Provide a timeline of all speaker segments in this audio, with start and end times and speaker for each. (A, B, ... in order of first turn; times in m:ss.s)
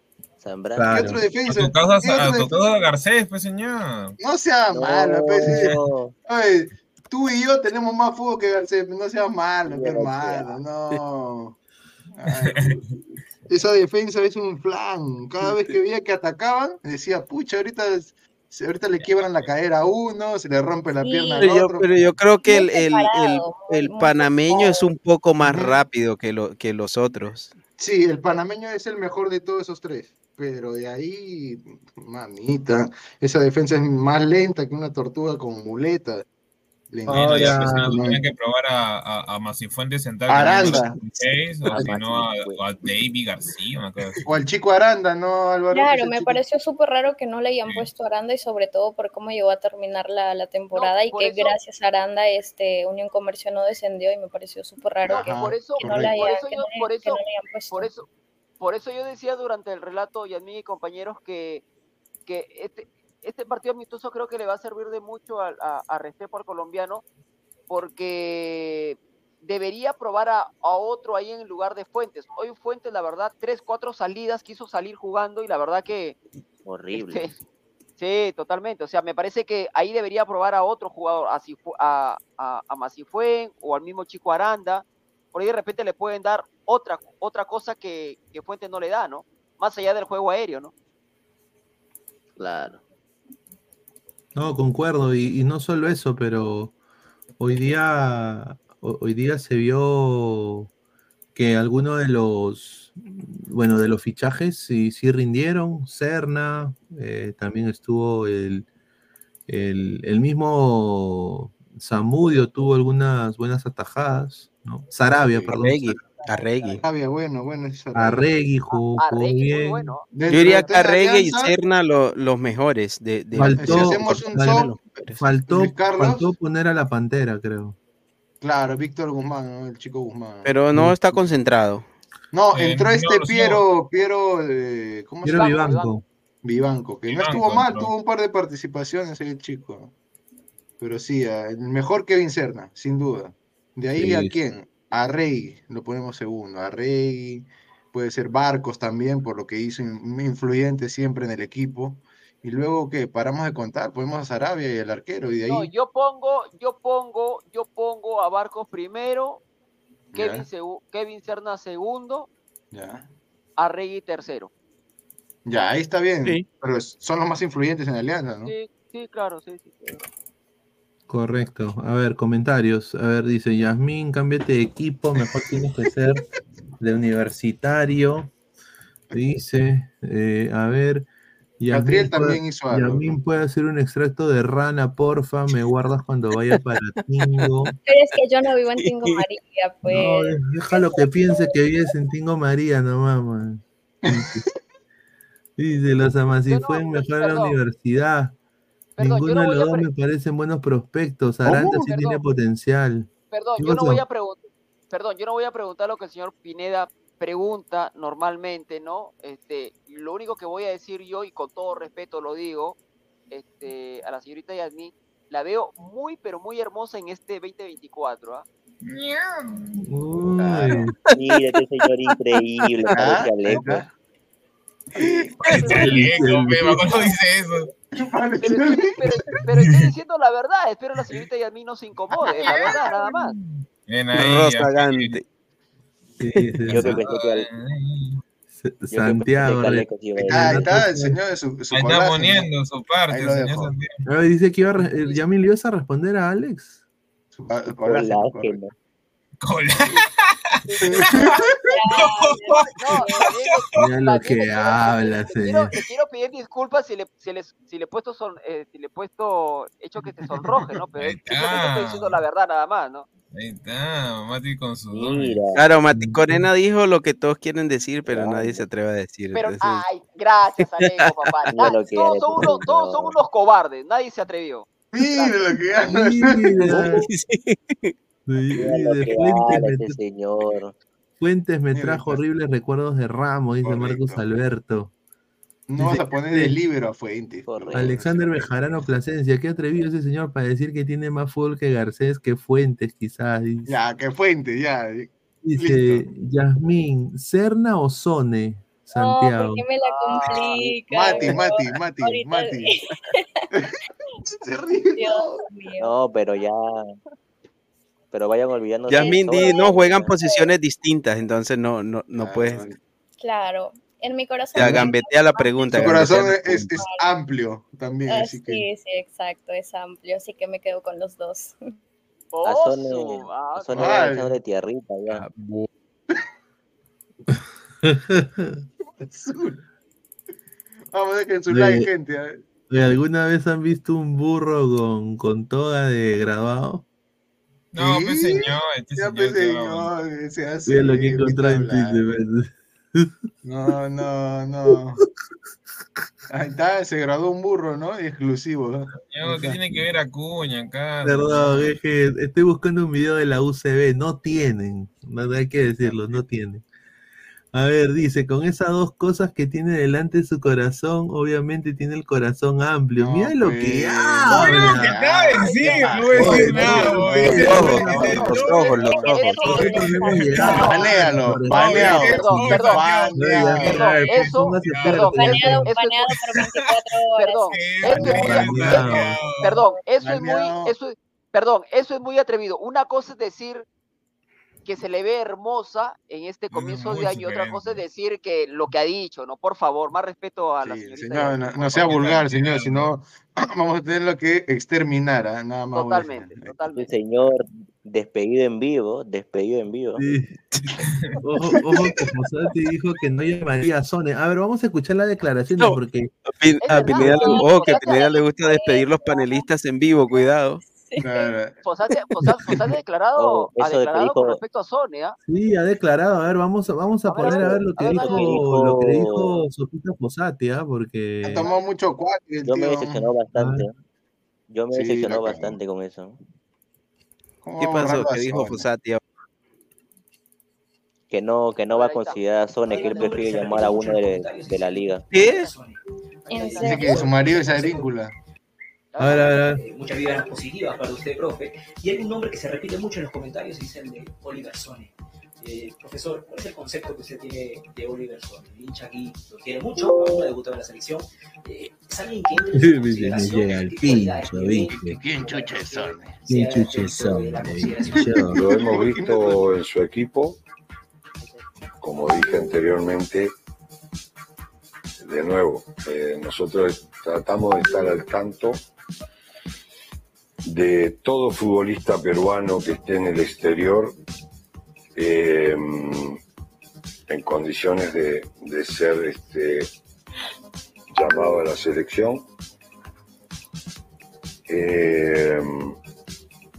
0:00.4-0:01.1 A
0:00.8-0:01.2 B
0:00.9-0:02.6 C
0:01.4-0:04.2 D
0:04.2-0:11.6 C
0:04.7-0:06.1 A
0:09.7-0:10.6 A
0:12.2-0:12.8 C
0:12.4-0:12.8 D
0:13.5-0:22.1 C
0:21.0-0:21.5 E
0:21.4-0:27.5 F
0:22.4-0:24.9 E
0:25.4-0:25.8 C
0:27.8-0:36.2 C
0:36.9-0:38.2 C
0:37.1-0:38.0 B
0:37.1-0:44.4 D
0:40.3-0:41.0 C
0:41.7-0:42.6 A
0:44.2-0:46.4 C
0:45.7-0:57.9 E
0:50.7-0:51.6 G
0:55.0-0:56.3 C
0:55.1-0:58.1 G
0:58.6-1:01.6 G
1:02.3-1:07.0 G
1:07.7-1:16.2 G
1:16.7-1:17.3 A
1:16.9-1:17.3 G
1:18.0-1:30.7 G
1:32.4-1:32.8 A
1:34.4-1:36.8 B
1:37.4-1:40.7 B
1:41.4-1:48.7 B
1:49.5-1:56.0 B
1:55.5-1:56.8 F
1:56.1-1:56.8 G
1:56.8-1:58.2 C
1:58.0-1:59.9 B
1:58.7-2:00.7 G
2:00.1-2:01.5 C
2:00.3-2:05.2 F
2:03.3-2:07.8 B
2:03.6-2:04.8 C
2:05.4-2:06.3 C
2:08.4-2:10.5 C
2:10.4-2:11.9 F
2:10.7-2:11.2 B
2:12.3-2:15.5 C
2:12.5-2:13.6 D
2:15.2-2:16.0 B
2:15.3-2:16.0 G
2:16.4-2:19.9 C
2:17.1-2:17.9 D
2:20.8-2:35.7 C
2:24.0-2:24.3 B
2:35.5-2:39.4 G
2:40.1-2:40.4 C
2:40.1-2:42.3 G
2:42.7-2:43.1 C
2:43.6-2:44.5 G
2:45.4-2:48.5 C
2:46.2-2:46.5 F
2:48.4-2:50.0 G
2:51.1-2:56.2 B
2:56.8-2:58.3 B
2:59.1-3:01.1 B
3:01.6-3:07.7 B
3:01.7-3:03.1 C
3:07.8-3:11.6 E
3:08.7-3:09.3 F
3:09.8-3:14.4 B
3:14.0-3:14.4 C
3:15.6-3:18.4 B
3:16.5-3:17.6 G
3:19.0-3:19.9 G
3:19.0-3:24.0 B
3:21.4-3:21.8 C
3:21.8-3:22.2 G
3:23.3-3:32.8 G
3:33.3-3:38.4 G
3:38.8-3:39.8 D
3:39.8-3:40.9 B
3:40.4-3:40.8 C
3:41.1-3:43.7 A
3:42.9-3:43.9 C
3:45.0-3:45.8 C
3:45.4-3:47.7 D
3:45.4-3:47.0 B
3:45.6-3:46.1 G
3:48.0-3:49.2 C
3:48.4-3:53.3 G
3:53.9-3:55.2 D
3:54.1-3:55.2 F
3:56.2-3:57.0 B
3:56.7-3:57.5 A
3:56.8-3:58.2 D
3:58.6-4:01.2 B
3:58.9-4:00.7 A
4:00.2-4:02.5 C
4:01.7-4:04.0 D
4:03.1-4:03.7 C
4:04.1-4:06.8 B
4:07.4-4:08.6 C
4:07.7-4:08.7 A
4:09.4-4:10.1 D
4:10.7-4:11.4 G
4:10.8-4:11.4 C
4:10.8-4:13.7 D
4:11.3-4:13.3 E
4:12.8-4:23.1 G
4:13.7-4:15.7 B
4:21.0-4:22.2 D
4:23.3-4:25.4 D
4:24.9-4:25.6 A
4:25.6-4:29.8 F
4:25.9-4:26.5 B
4:28.1-4:28.6 A
4:29.3-4:35.8 G
4:30.8-4:31.1 F
4:31.5-4:33.1 A
4:34.9-4:36.8 C
4:35.9-4:37.1 B
4:36.7-4:38.0 F
4:38.3-4:40.0 B
4:38.6-4:40.8 A
4:41.2-4:44.9 B
4:41.7-4:42.2 C
4:43.6-4:44.2 C
4:45.7-4:48.4 C
4:45.8-4:46.6 B
4:47.4-4:48.0 A
4:47.7-4:53.8 B
4:53.7-4:56.0 C
4:55.4-4:59.7 B
4:58.9-5:03.5 E
4:59.8-5:01.4 G
5:00.3-5:02.7 C
5:04.4-5:05.4 C
5:05.0-5:05.9 E
5:05.8-5:06.8 A
5:08.1-5:10.1 A
5:08.9-5:12.7 F
5:09.0-5:10.5 E
5:12.1-5:12.8 C
5:13.2-5:15.9 E
5:14.5-5:16.8 F
5:15.4-5:15.8 G
5:15.7-5:18.7 C
5:16.7-5:17.1 E
5:18.1-5:21.6 E
5:22.3-5:24.1 G
5:22.4-5:25.2 A
5:23.8-5:24.3 C
5:25.1-5:25.7 F
5:27.8-5:28.6 B
5:29.0-5:29.6 C
5:30.9-5:32.4 C
5:31.5-5:31.9 B
5:32.7-5:36.8 B
5:37.7-5:39.9 D
5:37.8-5:42.0 C
5:40.7-5:43.1 B
5:43.4-5:45.0 C
5:46.3-5:48.9 C
5:49.1-5:51.7 D
5:49.2-5:49.9 B
5:51.0-5:56.6 B
5:57.5-6:05.0 B
6:03.0-6:08.4 C
6:04.3-6:15.4 D
6:05.5-6:05.8 E
6:06.2-6:08.4 B
6:07.3-6:08.4 G
6:07.3-6:09.7 F
6:07.7-6:11.0 E
6:09.5-6:12.5 B
6:10.4-6:10.7 G
6:10.6-6:13.7 C
6:11.5-6:12.9 G
6:13.1-6:15.7 B
6:13.6-6:16.1 G
6:15.1-6:18.4 E
6:16.1-6:16.7 D
6:17.2-6:23.7 G
6:17.5-6:19.6 D
6:17.9-6:19.2 B
6:20.0-6:20.7 C
6:24.7-6:32.1 G
6:26.5-6:27.8 D
6:30.6-6:36.5 C
6:31.7-6:32.9 D
6:35.7-6:36.9 G
6:36.8-6:40.0 A
6:40.0-6:40.4 B
6:41.2-6:46.1 B
6:41.6-6:42.0 C
6:46.4-6:50.6 F
6:46.6-6:48.2 G
6:46.7-6:47.4 B
6:47.2-6:49.5 E
6:50.0-6:51.3 E
6:51.0-6:51.6 C
6:51.6-6:55.2 G
6:53.2-6:54.4 A
6:55.2-7:01.5 B
6:57.1-6:58.4 G
6:57.2-6:59.4 A
7:01.2-7:03.1 C
7:02.4-7:03.7 A
7:03.4-7:03.7 B
7:04.5-7:06.2 A
7:04.7-7:05.6 C
7:07.4-7:08.6 C
7:07.6-7:09.0 F
7:11.1-7:15.0 A
7:11.7-7:13.2 G
7:12.6-7:17.9 H
7:15.1-7:15.5 F
7:16.3-7:17.1 E
7:16.4-7:16.9 G
7:16.6-7:18.1 C
7:18.9-7:19.4 G
7:19.0-7:19.6 B
7:19.1-7:38.4 H
7:32.5-7:35.0 B
7:34.7-7:36.1 C
7:36.3-7:38.4 B
7:38.3-7:40.4 I
7:38.3-7:39.4 C
7:41.8-7:43.3 I
7:45.0-7:48.6 I
7:50.4-7:54.0 I
7:55.0-7:56.2 I
7:57.1-7:59.7 I
8:00.9-8:02.3 I
8:04.5-8:05.8 I